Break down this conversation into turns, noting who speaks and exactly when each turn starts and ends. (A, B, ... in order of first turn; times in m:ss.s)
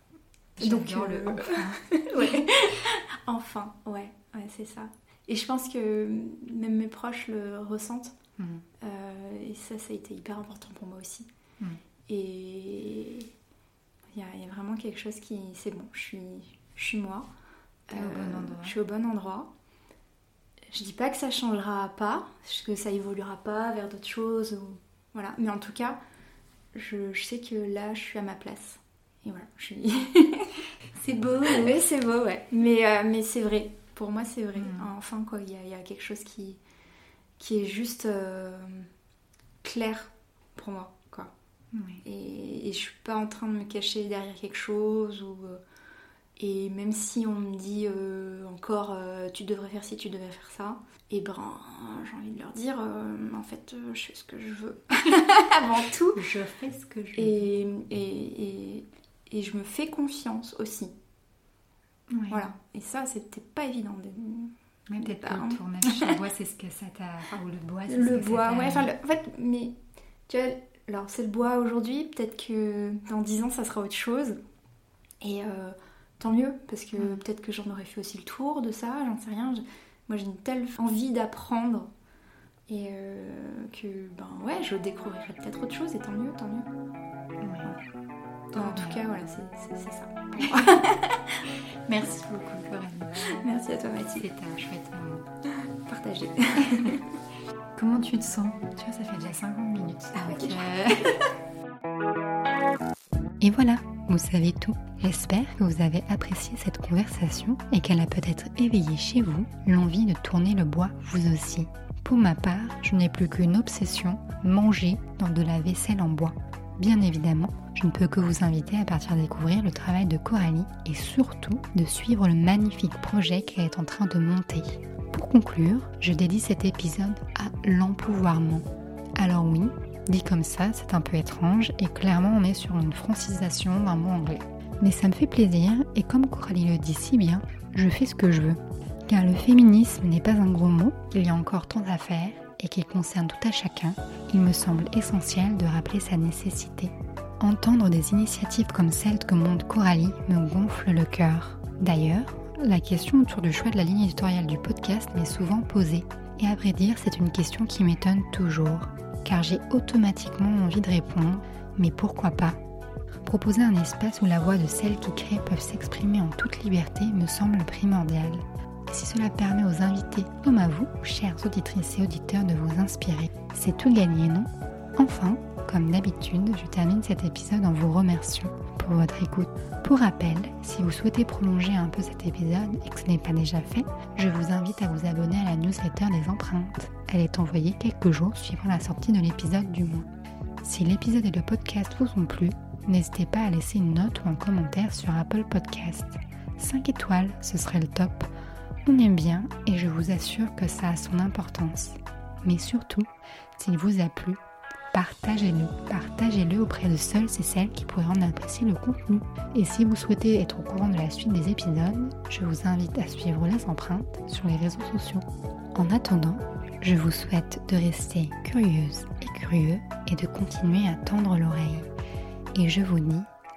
0:00.6-0:02.6 A
0:00.6-0:08.2 B
0:08.4-0:08.6 A
0:08.8-0:11.3 B
0:12.1-0:13.3 B
0:14.1-0:17.3 B
0:17.9-0:19.5 B
0:17.9-0:18.7 A
0:20.7-0:26.0 B
0:26.7-0:30.6 B
0:30.9-0:31.8 A
0:31.4-0:36.6 B
0:34.6-0:34.9 A
0:37.4-0:38.9 B
0:39.6-0:41.3 B
0:41.7-0:42.0 A
0:42.0-0:45.6 B
0:46.4-0:56.2 B
0:56.1-0:57.5 A
0:57.2-1:00.9 B
1:02.1-1:02.5 A
1:02.3-1:06.2 B
1:04.9-1:08.9 A
1:07.9-1:09.7 B
1:10.3-1:14.4 B
1:15.2-1:21.9 B
1:17.0-1:17.2 A
1:22.7-1:26.7 B
1:27.4-1:27.7 A
1:28.5-1:29.0 A
1:28.5-1:31.5 B
1:30.4-1:30.9 A
1:31.8-1:33.2 A
1:33.2-1:34.2 B
1:34.1-1:35.3 A
1:35.4-1:37.1 B
1:36.6-1:37.0 A
1:37.7-1:41.2 A
1:40.1-1:41.3 B
1:43.4-2:42.6 A
2:43.2-3:10.1 A
3:10.6-3:18.3 A
3:18.8-3:24.4 A
3:24.9-3:41.9 A
3:42.5-3:43.3 A